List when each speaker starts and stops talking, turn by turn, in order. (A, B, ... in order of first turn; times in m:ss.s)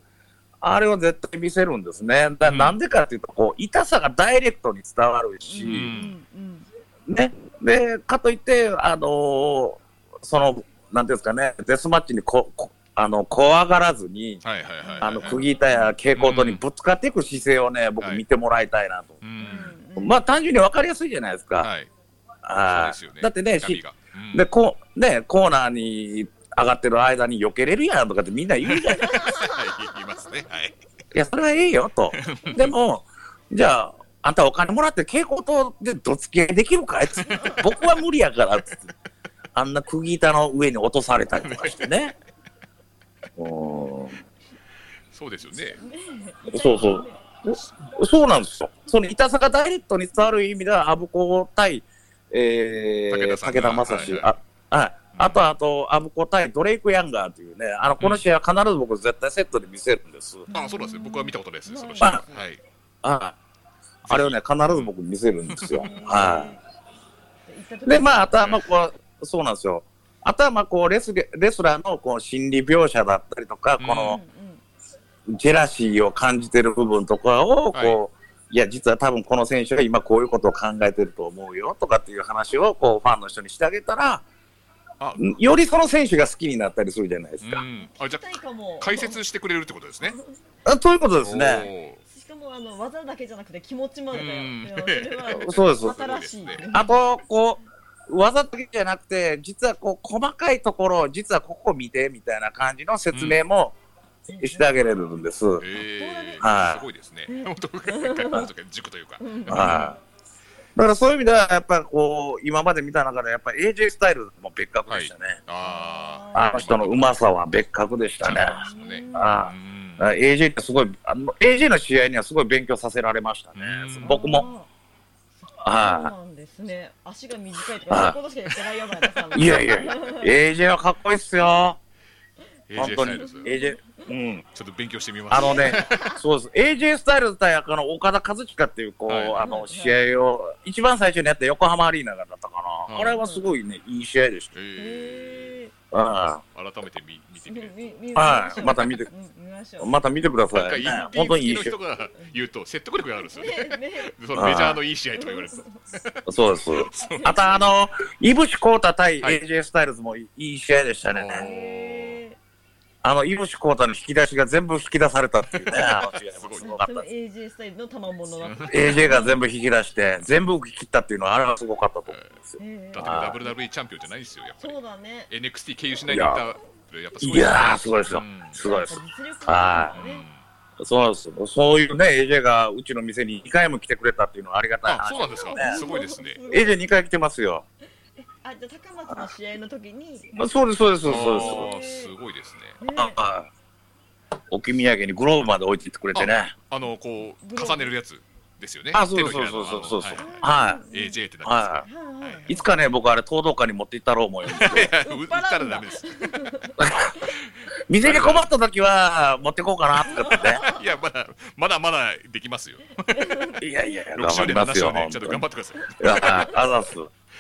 0:00.6-0:05.9 A
0:02.4-0:02.8 B
0:05.4-0:06.7 C
0:05.6-0:06.2 B
0:07.1-0:14.4 A
0:14.4-0:15.4 B
0:14.8-0:15.1 C
0:15.0-0:19.2 A
0:16.2-0:16.6 B
0:19.2-0:19.7 B
0:19.4-0:20.2 C
0:20.0-0:21.7 A
0:21.6-0:21.9 B
0:22.4-0:23.8 A
0:22.7-0:24.4 B
0:24.3-0:29.2 A
0:28.6-0:30.8 B
0:29.0-0:29.7 C
0:31.1-0:38.9 A
0:32.1-0:32.7 B
0:37.1-0:37.7 B
0:37.3-0:37.6 C
0:39.5-0:42.1 A
0:41.4-0:41.9 B
0:43.4-0:44.2 A
0:45.1-0:45.8 B
0:45.8-0:47.2 C
0:46.5-1:00.4 A
0:53.1-0:54.3 B
0:55.1-0:55.4 B
1:00.5-1:02.4 C
1:00.5-1:02.6 B
1:03.0-1:03.3 A
1:04.0-1:06.5 A
1:04.1-1:04.9 B
1:05.5-1:05.9 B
1:05.7-1:06.6 C
1:07.5-1:08.4 C
1:07.8-1:14.2 A
1:13.8-1:14.2 B
1:14.0-1:14.6 C
1:15.3-1:24.2 A
1:17.7-1:18.0 B
1:25.0-1:25.4 B
1:25.2-1:27.6 A
1:27.4-1:30.2 B
1:27.8-1:29.2 C
1:30.6-1:31.7 A
1:31.2-1:32.0 B
1:32.0-1:37.0 C
1:34.1-1:36.7 B
1:35.3-1:36.0 A
1:36.7-1:43.7 A
1:43.1-1:43.4 B
1:44.3-1:44.7 C
1:44.4-1:45.6 A
1:45.6-1:49.9 B
1:45.8-1:46.4 C
1:46.4-1:46.8 A
1:47.3-1:48.5 C
1:49.2-1:49.9 C
1:49.5-1:50.0 A
1:50.8-1:55.4 A
1:54.9-1:57.2 B
1:55.6-1:56.7 C
1:56.3-2:04.5 A
1:58.2-2:00.1 B
1:58.4-1:59.4 C
2:03.5-2:04.2 B
2:04.0-2:04.7 C
2:05.6-2:06.1 A
2:05.7-2:10.3 C
2:07.9-2:08.2 A
2:09.1-2:09.5 B
2:09.3-2:11.8 A
2:12.7-2:13.5 B
2:12.8-2:14.4 A
2:12.9-2:14.1 C
2:14.5-2:16.1 B
2:15.3-2:24.5 A
2:15.3-2:16.2 C
2:19.1-2:19.5 B
2:19.4-2:20.0 C
2:22.9-2:23.2 B
2:23.1-2:23.5 C
2:24.5-2:25.6 B
2:24.8-2:25.7 C
2:25.9-2:26.4 A
2:26.5-2:28.2 B
2:27.4-2:30.0 C
2:28.1-2:29.1 A
2:29.8-2:31.7 A
2:30.5-2:37.4 B
2:30.8-2:31.1 C
2:33.3-2:34.1 C
2:34.3-2:34.8 A
2:35.1-2:35.8 C
2:36.3-2:41.4 A
2:37.0-2:37.7 C
2:41.1-2:42.2 B
2:41.3-2:42.4 C
2:43.0-2:47.0 A
2:45.6-2:46.8 B
2:46.6-2:49.4 C
2:48.4-2:49.2 B
2:48.7-2:53.4 A
2:52.1-2:52.4 B
2:52.6-2:53.5 C
2:52.9-2:54.8 B
2:54.6-2:55.3 C
2:55.3-2:58.6 B
2:56.1-2:56.4 A
2:57.2-3:00.0 A
2:58.6-3:00.2 C
2:59.9-3:00.4 B
3:00.8-3:05.8 A
3:04.8-3:06.4 B
3:05.5-3:06.8 C
3:06.5-3:07.6 A
3:08.2-3:10.4 C
3:10.4-3:11.7 A
3:11.0-3:12.8 B
3:11.1-3:12.1 C
3:12.8-3:13.2 C
3:12.9-3:13.5 A
3:14.5-3:16.5 A
3:16.1-3:20.2 B
3:17.4-3:17.9 C
3:18.9-3:20.8 A
3:20.2-3:21.2 C
3:20.9-3:22.4 B
3:21.4-3:21.8 A
3:21.8-3:22.7 C
3:22.5-3:24.9 A
3:24.5-3:27.3 C
3:24.5-3:26.6 B
3:26.8-3:27.2 A
3:27.3-3:28.5 B
3:27.9-3:30.6 A
3:30.0-3:30.8 C
3:30.7-3:33.5 B
3:33.1-3:34.0 C
3:33.6-3:35.4 A
3:34.1-3:36.5 B
3:35.8-3:36.6 C
3:36.0-3:37.1 A